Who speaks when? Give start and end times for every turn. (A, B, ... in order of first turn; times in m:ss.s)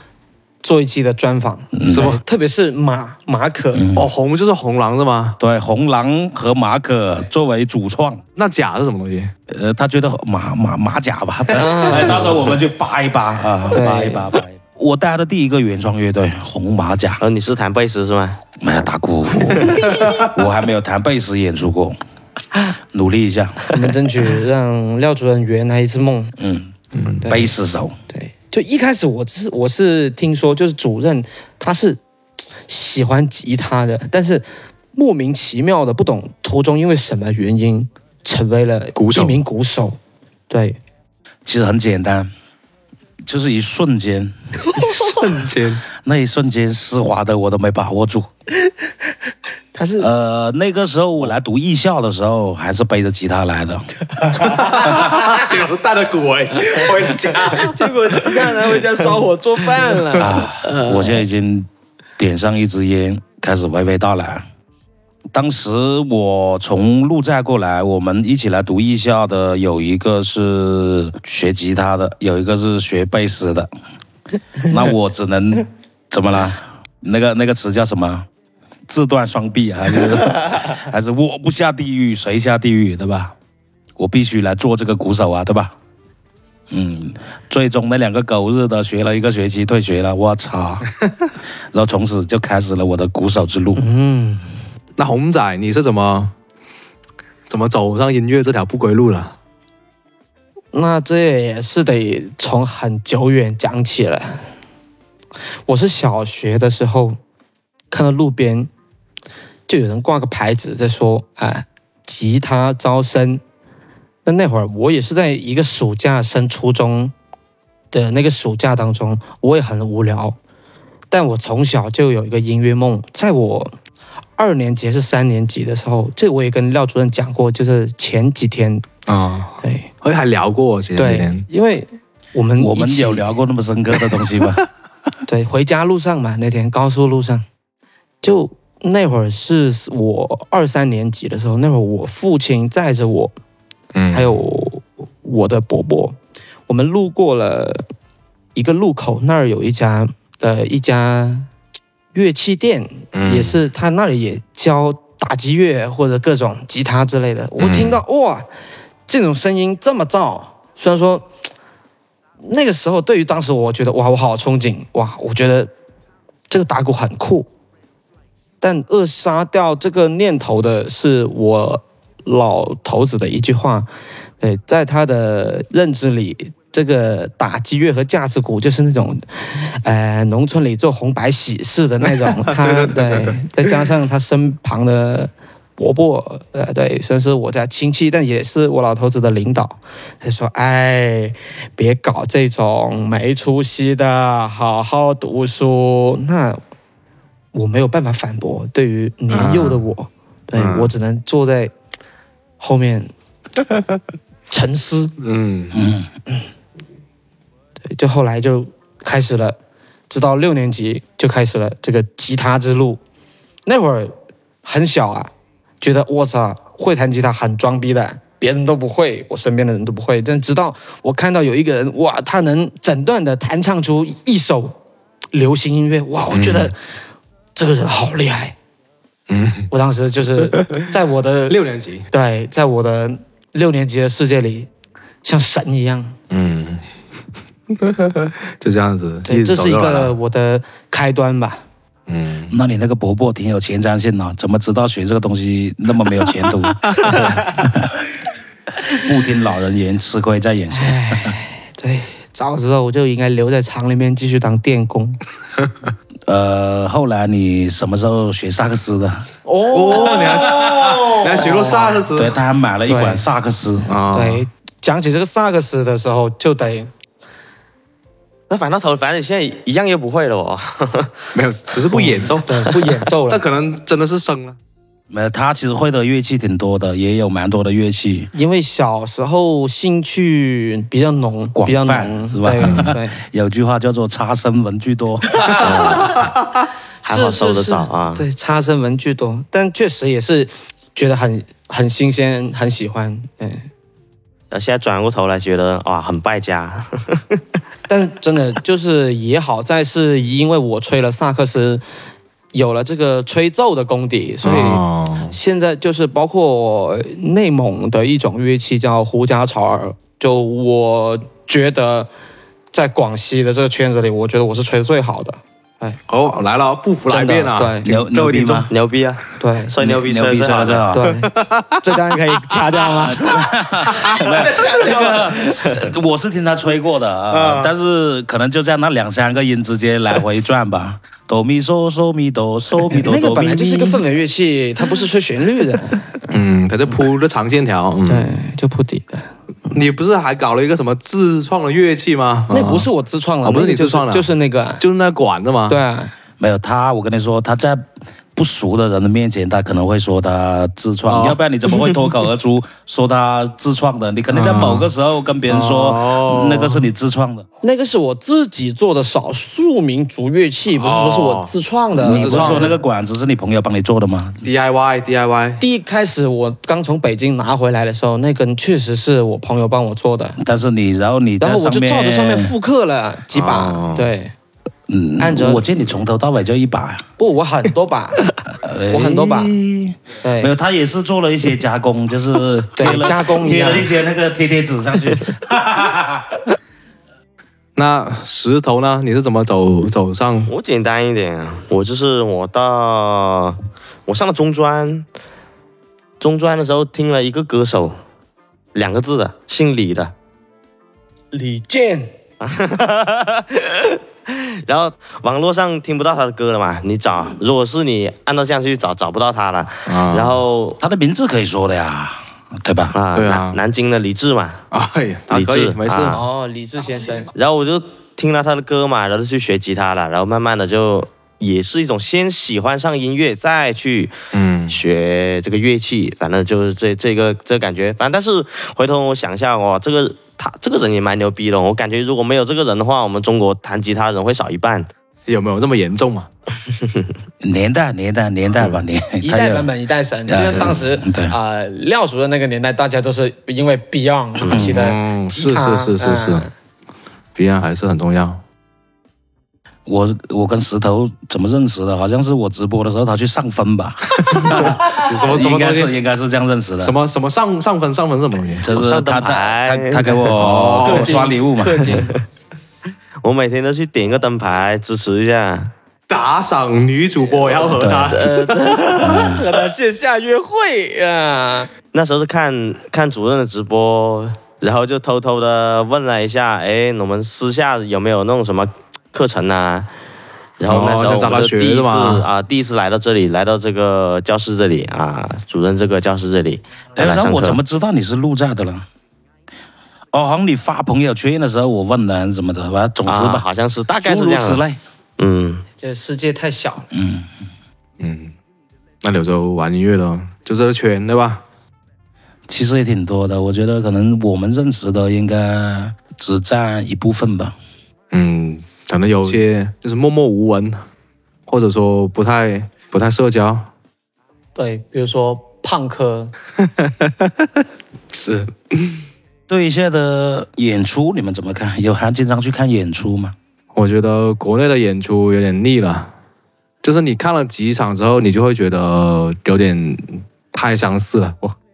0:00.6-0:03.8 A
0:01.7-0:02.2 B
0:01.9-0:02.2 C
0:03.7-0:04.1 B
0:04.0-0:05.4 C
0:05.4-0:08.2 B
0:08.4-0:09.3 C
0:09.5-0:17.2 B
0:11.5-0:12.4 A
0:11.9-0:12.3 C
0:13.7-0:14.3 A
0:17.2-0:18.4 D
0:18.6-0:22.0 B
0:22.9-0:23.7 B
0:23.7-0:26.3 A
0:26.4-0:26.7 B
0:26.9-0:27.2 C
0:27.2-0:27.5 A
0:27.2-0:28.0 B
0:28.1-0:32.0 A
0:32.7-0:40.0 A
0:39.0-0:39.4 C
0:40.5-0:40.8 A
0:41.4-0:42.3 B
0:43.2-0:44.3 B
0:44.7-0:45.8 C
0:45.9-0:48.3 B
0:49.7-0:50.1 A
0:50.0-0:53.9 B
0:54.2-0:55.1 A
0:54.4-0:57.8 C
0:57.1-1:01.2 A
1:00.2-1:04.4 B
1:05.3-1:13.7 B
1:14.6-1:18.3 B
1:18.9-1:23.3 B
1:24.0-1:25.7 B
1:26.7-1:30.9 B
1:31.7-1:33.8 B
1:33.7-1:34.5 A
1:35.0-1:36.3 C
1:37.5-1:39.3 C
1:40.7-1:44.5 A
1:45.7-1:47.2 A
1:47.9-1:48.7 A
1:49.7-1:53.4 A
1:54.2-1:57.1 A
1:57.9-2:00.4 A
2:01.1-2:03.7 A
2:04.4-2:08.8 A
2:09.1-2:11.4 C
2:09.6-2:09.9 A
2:11.0-2:13.3 A
2:12.6-2:14.6 B
2:15.2-2:17.4 A
2:18.2-2:23.3 A
2:23.9-2:24.3 C
2:24.1-2:26.2 A
2:26.7-2:27.9 A
2:28.5-2:31.5 A
2:32.1-2:38.5 A
2:33.1-2:33.6 C
2:37.6-2:38.0 C
2:39.1-2:41.3 A
2:42.4-2:45.7 A
2:46.5-2:47.5 A
2:48.6-2:53.9 A
2:54.4-3:16.6 A
3:02.2-3:03.4 C
3:17.5-3:21.7 A
3:19.3-3:19.8 C
3:20.6-3:20.9 C
3:22.6-3:23.1 A
3:24.5-3:25.1 A
3:25.2-3:25.8 C
3:25.7-3:26.1 B
3:27.9-3:29.6 A
3:30.1-3:33.0 A
3:33.6-3:44.8 A
3:45.3-3:46.7 A
3:46.3-3:46.7 C
3:47.5-3:48.5 A
3:49.3-3:49.7 C
3:49.7-3:51.6 A
3:51.5-3:52.1 C
3:52.1-3:54.7 A
3:55.2-3:56.2 A
3:56.3-3:56.8 C
3:57.8-4:00.1 C
3:59.2-4:01.6 A
4:02.1-4:02.5 C
4:02.5-4:08.1 B
4:07.1-4:07.3 A
4:08.9-4:11.3 B
4:10.7-4:15.2 A
4:16.3-4:19.3 B
4:19.4-4:22.1 A
4:19.7-4:22.3 C
4:19.9-4:21.1 B
4:21.8-4:23.9 B
4:22.8-4:23.2 A
4:23.9-4:24.4 C
4:24.1-4:26.9 A
4:28.5-4:31.3 D
4:31.3-4:34.6 C
4:31.9-4:33.4 A
4:35.1-4:38.3 B
4:38.3-4:43.2 A
4:41.5-4:46.1 B
4:42.6-4:42.9 C
4:45.4-4:46.2 A
4:45.6-4:46.2 D
4:47.0-4:53.7 A
4:47.0-4:48.2 D
4:54.5-4:57.4 D
4:57.9-5:01.8 A
5:02.5-5:12.1 A
5:04.4-5:05.3 C
5:12.7-5:16.0 A
5:16.1-5:18.7 C
5:17.1-5:18.0 A
5:17.8-5:18.7 B
5:18.7-5:20.9 D
5:19.4-5:19.7 A
5:19.8-5:21.1 B
5:20.9-5:25.7 A
5:21.3-5:21.9 C
5:22.8-5:34.0 B
5:27.3-5:27.7 C
5:32.9-5:36.3 A
5:36.3-5:38.3 C
5:38.0-5:39.3 A
5:39.7-5:42.9 C
5:42.5-5:44.8 A
5:43.4-5:45.8 C
5:45.7-5:46.1 A
5:46.4-5:47.8 B
5:48.3-5:57.4 B
5:51.0-5:51.4 C
5:54.3-5:54.9 C
5:55.5-5:56.8 C
5:57.6-6:02.8 A
6:00.8-6:02.7 C
6:02.0-6:04.5 B
6:04.4-6:05.6 C
6:05.6-6:10.4 A
6:10.4-6:12.5 B
6:11.4-6:14.3 A
6:13.3-6:14.1 C
6:14.9-6:17.0 B
6:15.2-6:15.6 A
6:17.2-6:18.3 A
6:18.5-6:26.3 B
6:18.9-6:19.5 A
6:20.2-6:20.5 A
6:22.8-6:23.9 A
6:27.8-6:30.5 C
6:30.5-6:35.1 D
6:36.2-6:38.0 D
6:38.7-6:40.1 D
6:41.3-6:42.1 A
6:42.4-6:50.8 D
6:49.9-6:50.4 C
6:50.8-6:52.9 B
6:52.9-6:54.6 D
6:53.1-6:53.6 C
6:54.7-6:56.2 C
6:55.3-6:56.2 D
6:56.1-6:57.3 A
6:57.3-7:04.1 D
7:04.3-7:04.8 C
7:04.7-7:14.9 D
7:15.2-7:16.3 C
7:16.7-7:17.1 D
7:17.4-7:19.7 B
7:19.2-7:26.5 A
7:20.3-7:21.3 B
7:24.4-7:24.7 D
7:24.5-7:24.8 B
7:24.5-7:26.5 C
7:27.3-7:28.4 C
7:29.8-7:37.0 B
7:34.2-7:35.9 C
7:36.8-7:38.7 C
7:38.6-7:42.1 B
7:38.7-7:40.4 D
7:40.3-7:41.2 C
7:40.8-7:42.2 A
7:41.8-7:42.1 D
7:43.2-7:45.7 D
7:46.1-7:48.6 C
7:47.8-7:48.2 B
7:48.1-7:51.7 A
7:49.0-7:49.4 B
7:51.9-7:59.9 D
8:00.6-8:07.6 D
8:00.6-8:02.3 C
8:07.0-8:08.8 B
8:10.1-8:13.4 B
8:13.0-8:14.6 D
8:14.0-8:14.8 B
8:15.2-8:15.6 D
8:15.8-8:16.9 A
8:16.9-8:17.3 B
8:18.0-8:18.3 C
8:19.0-8:21.4 C
8:22.5-8:27.5 B
8:28.1-8:30.8 C
8:31.5-8:33.7 C
8:34.5-8:36.3 A
8:36.8-8:37.3 C
8:38.1-8:39.0 C
8:39.5-8:43.3 B
8:43.7-8:46.1 C
8:46.8-8:51.6 C